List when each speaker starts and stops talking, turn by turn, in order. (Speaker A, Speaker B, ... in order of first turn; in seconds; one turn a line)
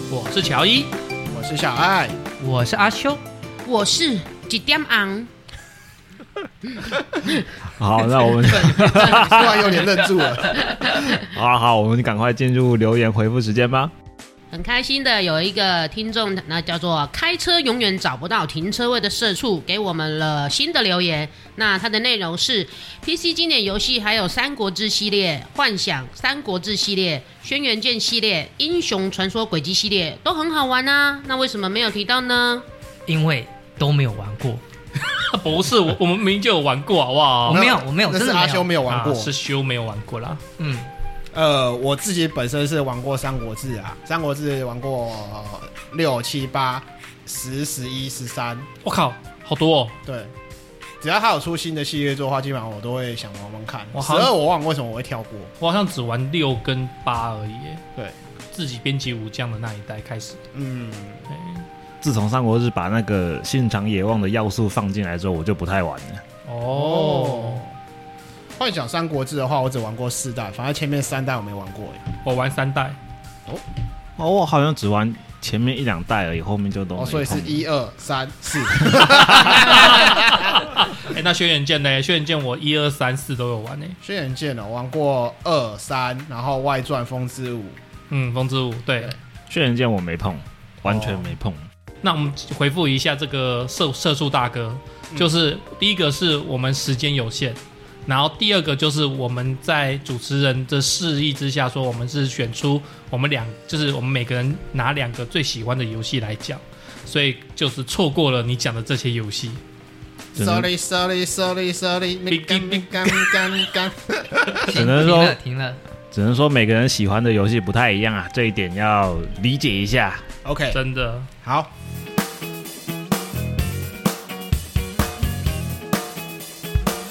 Speaker A: 0.1-0.9
Speaker B: 1.3-2.2
Speaker C: 2.4-3.2
Speaker D: 3.6-5.3
Speaker E: 7.7-9.7
Speaker B: 8.5-10.7
Speaker E: 10.6-13.9
Speaker D: 10.6-11.0
Speaker D: 14.5-32.6
Speaker C: 33.1-34.6
Speaker A: 35.2-37.6
Speaker C: 37.5-38.7
Speaker B: 37.5-39.3
Speaker A: 38.9-40.4
Speaker C: 40.6-40.9
Speaker B: 41.3-48.7
Speaker A: 48.8-50.0
Speaker B: 50.0-50.3
Speaker B: 51.0-55.5
Speaker A: 53.9-54.3
Speaker A: 55.6-57.8
Speaker A: 58.5-60.4
Speaker B: 60.5-61.2
Speaker A: 61.3-61.6
Speaker E: 62.0-66.2
Speaker A: 66.4-67.6
Speaker B: 66.7-67.7
Speaker B: 68.6-72.0
Speaker A: 72.2-73.0
Speaker E: 74.2-77.6
Speaker B: 77.0-80.2
Speaker E: 79.0-79.4
Speaker A: 79.7-84.0
Speaker B: 84.0-87.8
Speaker A: 88.1-89.2
Speaker E: 89.5-91.6
Speaker A: 90.9-91.3
Speaker A: 92.0-109.6
Speaker B: 110.3-114.7
Speaker E: 110.4-110.7
Speaker A: 112.3-113.3
Speaker C: 114.6-115.8
Speaker E: 114.7-115.4
Speaker E: 116.1-120.2
Speaker B: 120.4-120.8
Speaker A: 120.7-121.3
Speaker B: 121.4-121.7